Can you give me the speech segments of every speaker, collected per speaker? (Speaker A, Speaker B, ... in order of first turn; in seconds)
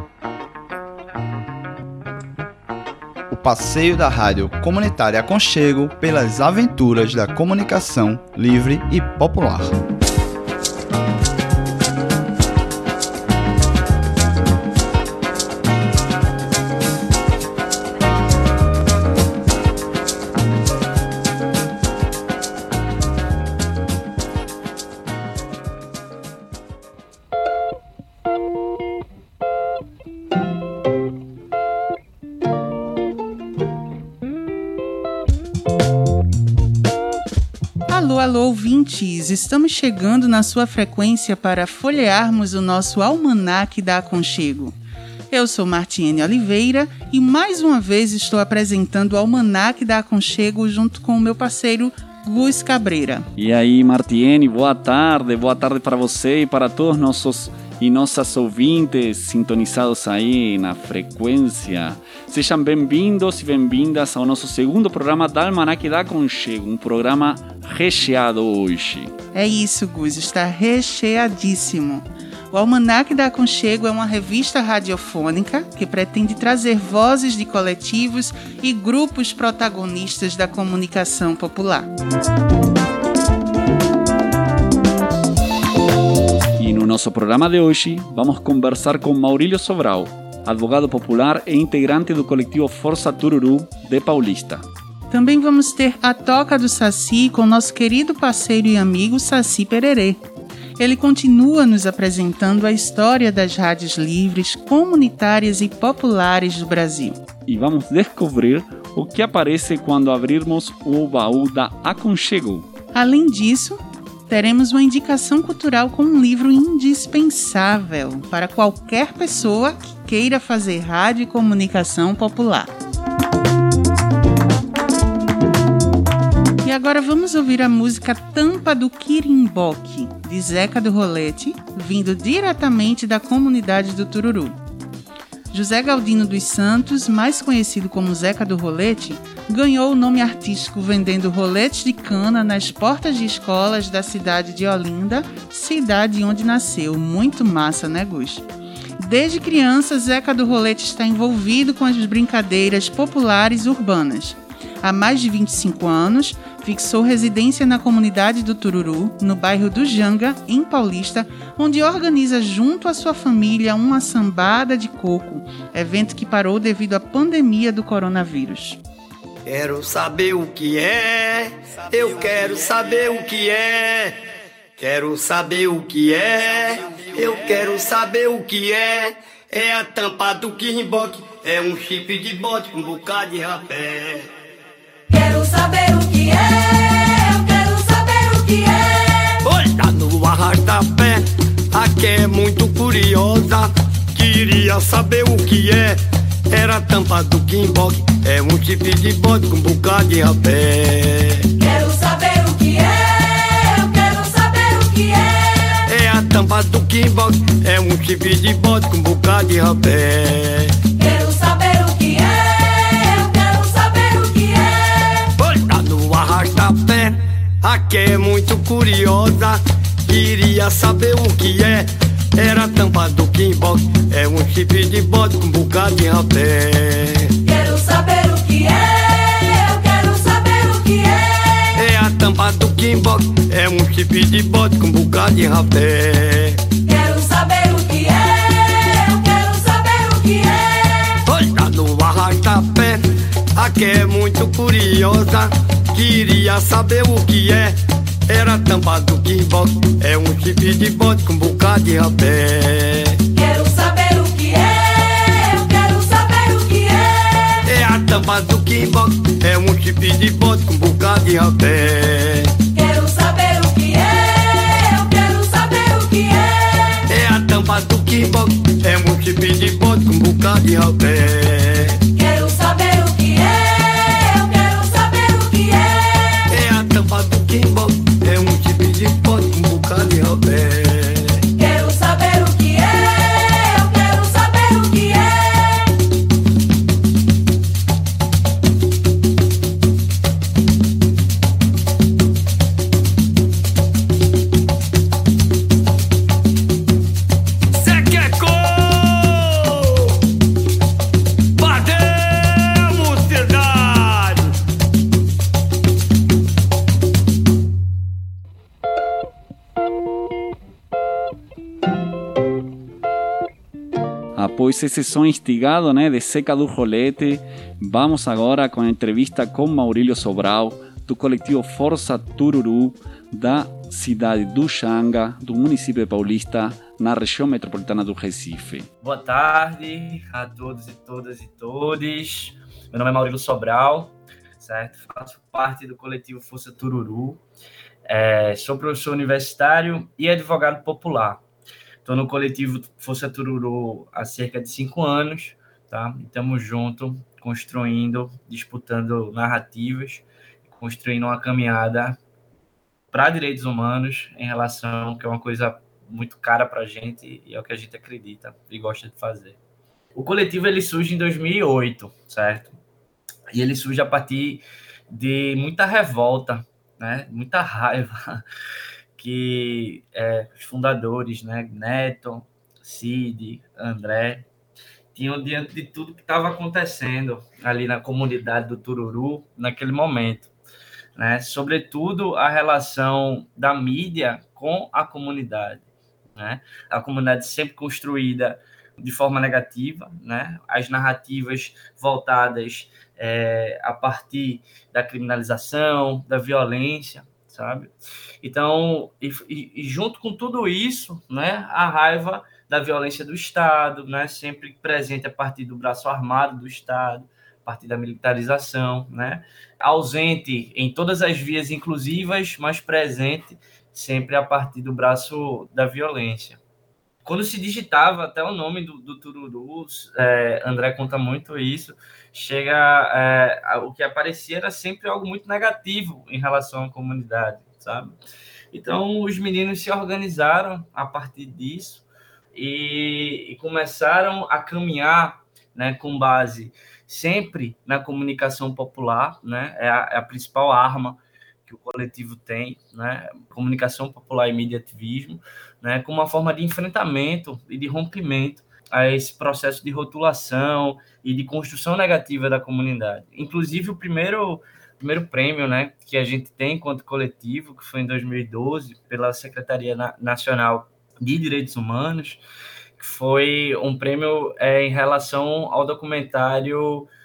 Speaker A: 3.3-9.8
Speaker B: 37.9-44.8, 45.3-53.3, 69.3-81.9, 95.1-100.2, 100.8-107.2, 112.9-122.7, 126.6-134.6, 135.5-148.4, 149.0-168.8
Speaker C: 53.4-69.1, 86.6-94.7, 107.5-112.7, 314.4-328.9
Speaker D: 169.4-174.2, 174.8-184.3, 189.4-201.5, 205.9-210.8, 215.4-227.3, 231.8-236.6, 241.3-253.2, 257.7-262.5, 267.1-272.0, 276.5-281.4, 297.7-300.2, 301.6-304.5
Speaker E: 185.1-189.4, 201.6-205.8, 211.0-215.3, 227.4-231.7, 236.8-241.2, 253.3-257.6, 262.7-267.0, 272.1-276.5, 281.6-285.9
Speaker F: 329.0-337.4, 338.1-341.4, 342.1-352.2, 353.1-359.6, 360.1-362.8, 363.5-368.4, 369.2-374.5, 375.1-380.5, 381.2-385.8, 386.4-416.6, 417.2-428.1, 428.7-432.0, 432.6-462.4, 463.0-467.1